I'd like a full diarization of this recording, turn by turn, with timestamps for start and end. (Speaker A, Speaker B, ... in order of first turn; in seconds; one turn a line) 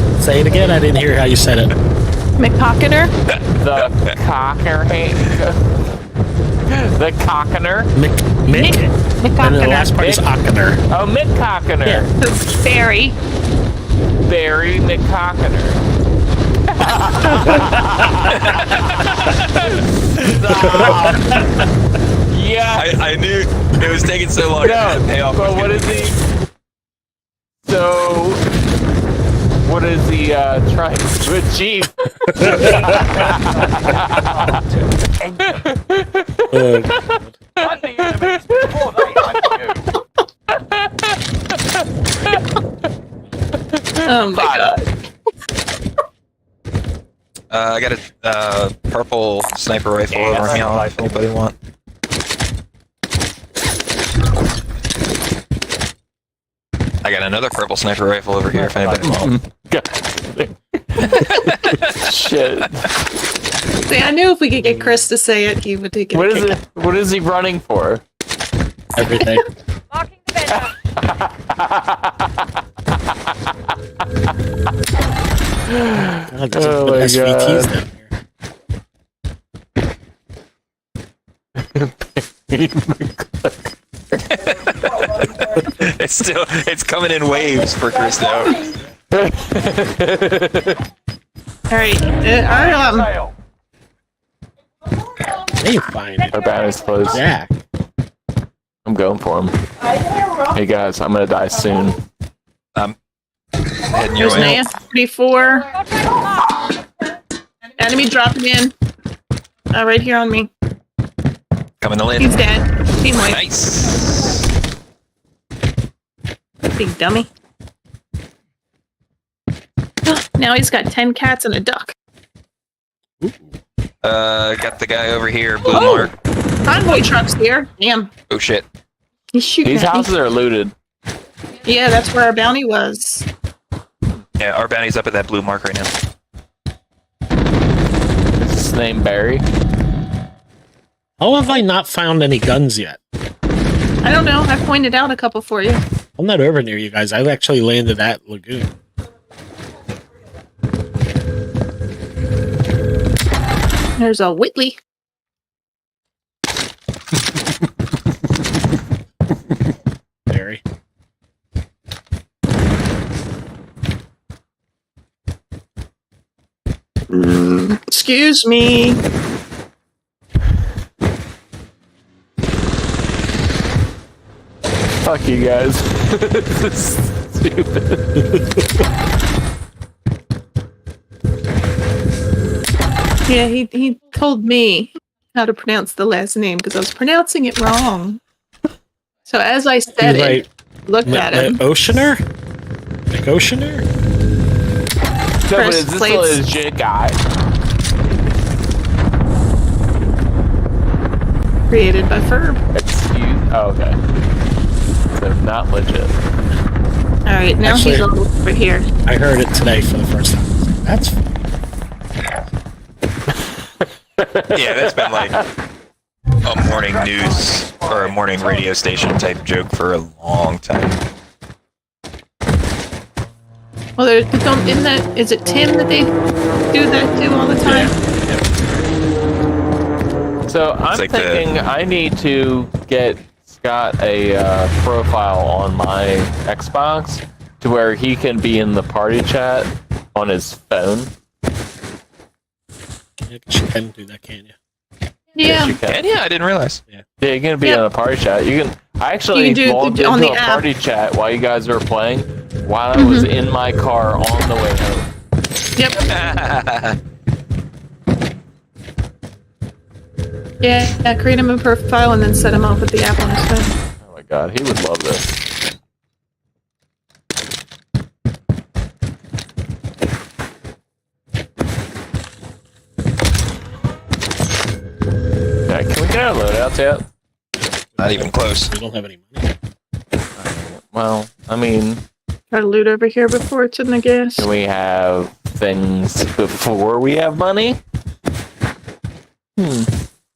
Speaker A: 0.2-1.7
Speaker B: 2.4-3.1
Speaker C: 3.6-5.6
Speaker C: 6.7-7.9
Speaker A: 8.0-10.8
Speaker B: 8.5-9.9
Speaker C: 10.0-10.3
Speaker C: 10.9-12.1
Speaker B: 12.2-13.2
Speaker C: 14.2-15.8
Speaker C: 16.7-21.6
Speaker D: 18.3-19.2
Speaker A: 20.5-21.4
Speaker C: 22.3-23.0
Speaker D: 22.7-26.2
Speaker C: 24.6-26.2
Speaker C: 27.6-28.4
Speaker C: 29.6-34.6
Speaker A: 32.4-32.9
Speaker C: 35.4-39.7
Speaker A: 36.5-37.4
Speaker C: 40.5-41.2
Speaker C: 41.7-42.4
Speaker C: 43.7-44.8
Speaker B: 44.0-44.9
Speaker D: 47.5-51.5
Speaker C: 50.1-51.0
Speaker D: 57.0-59.3
Speaker A: 58.5-59.3
Speaker C: 59.1-62.9
Speaker D: 61.1-62.1
Speaker B: 63.9-66.6
Speaker C: 66.1-68.0
Speaker A: 69.0-69.4
Speaker C: 70.4-72.4
Speaker C: 75.7-77.7
Speaker A: 76.1-78.1
Speaker C: 81.6-83.6
Speaker D: 84.2-88.6
Speaker C: 89.1-90.8
Speaker B: 91.7-93.1
Speaker A: 95.6-96.3
Speaker C: 96.3-97.2
Speaker A: 97.1-97.6
Speaker C: 98.8-99.6
Speaker C: 100.5-102.0
Speaker D: 103.9-104.6
Speaker B: 104.2-105.7
Speaker A: 104.3-104.7
Speaker B: 107.8-108.7
Speaker B: 109.7-110.5
Speaker D: 111.8-112.4
Speaker B: 112.2-113.4
Speaker D: 113.2-114.5
Speaker B: 116.8-117.3
Speaker B: 120.1-121.9
Speaker A: 123.2-123.5
Speaker D: 124.0-126.1
Speaker B: 125.7-126.0
Speaker B: 126.7-128.1
Speaker D: 128.3-128.7
Speaker B: 129.3-130.1
Speaker C: 129.7-130.7
Speaker B: 131.7-133.3
Speaker D: 134.4-135.9
Speaker C: 138.4-139.5
Speaker A: 141.2-143.0
Speaker B: 144.0-145.8
Speaker A: 146.2-148.7
Speaker B: 154.0-154.8
Speaker A: 160.3-160.6
Speaker B: 167.1-169.0
Speaker C: 175.0-178.3
Speaker B: 183.3-188.2
Speaker B: 189.3-191.6
Speaker A: 190.0-190.5
Speaker A: 191.1-192.2
Speaker A: 193.1-193.8
Speaker C: 195.4-197.2
Speaker B: 195.5-196.4
Speaker B: 201.7-202.6
Speaker C: 202.7-204.0
Speaker C: 205.1-206.2
Speaker B: 207.3-208.9
Speaker A: 207.6-208.1
Speaker A: 209.1-211.2
Speaker C: 213.8-215.4
Speaker D: 214.5-215.4
Speaker D: 216.4-221.0
Speaker B: 224.0-226.1
Speaker B: 226.7-227.9
Speaker D: 227.7-227.9
Speaker C: 230.5-241.1
Speaker D: 230.9-231.5
Speaker A: 243.2-244.6
Speaker B: 245.4-245.8
Speaker C: 245.4-246.0
Speaker D: 245.9-246.8
Speaker C: 247.2-255.1
Speaker B: 249.3-250.7
Speaker B: 253.0-253.3
Speaker D: 256.0-257.0
Speaker B: 260.6-263.7
Speaker C: 264.0-265.4
Speaker C: 275.7-277.0
Speaker A: 277.8-279.5
Speaker D: 278.0-278.7
Speaker C: 280.4-282.0
Speaker B: 282.5-284.5
Speaker C: 284.4-287.8
Speaker C: 289.6-289.9